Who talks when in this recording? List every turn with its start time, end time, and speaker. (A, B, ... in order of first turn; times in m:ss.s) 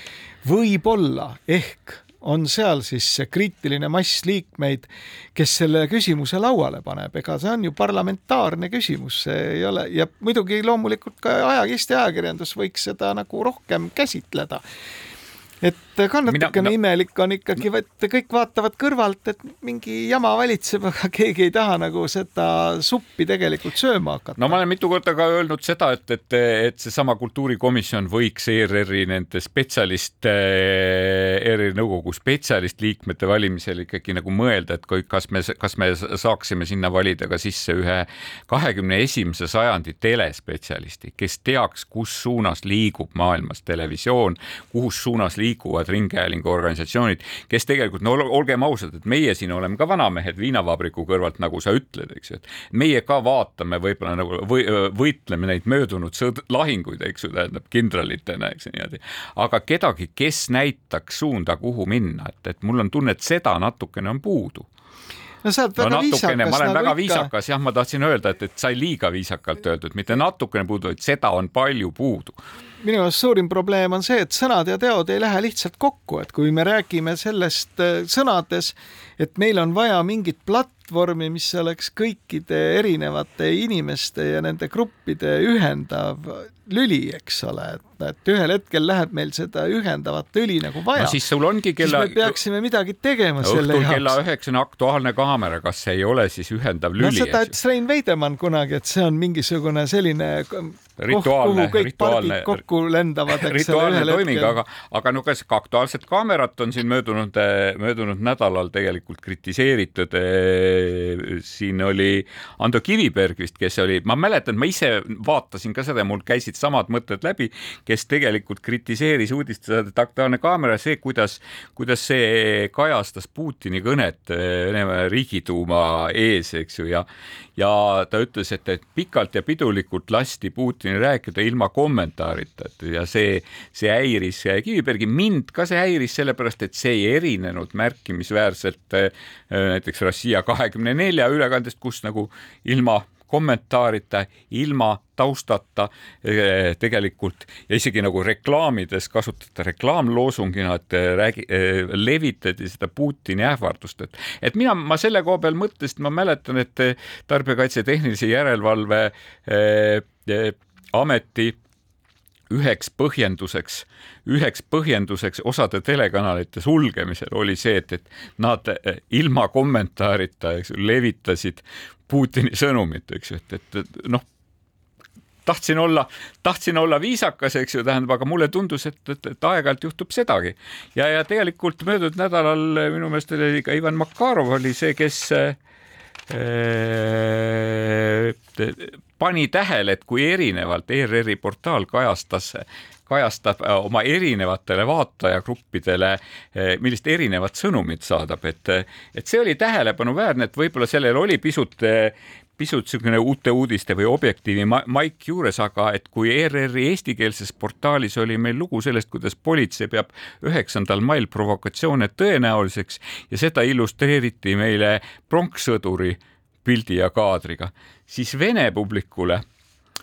0:00.4-0:14.6 A
0:15.6-0:24.6 A
0:16.3-0:16.8 B
0:24.4-1:04.7 B
1:05.4-1:07.3 A
1:05.8-1:12.4 B
1:12.8-1:31.2 A
1:31.0-1:32.3 B
1:31.8-1:34.2 A
1:33.4-1:37.5 B
1:37.0-1:44.6 A
1:41.0-1:42.6 B
1:43.3-2:07.1 B
2:07.6-2:41.6 B
2:42.5-2:54.3 B
2:55.5-3:05.6 B
3:06.3-3:39.4 B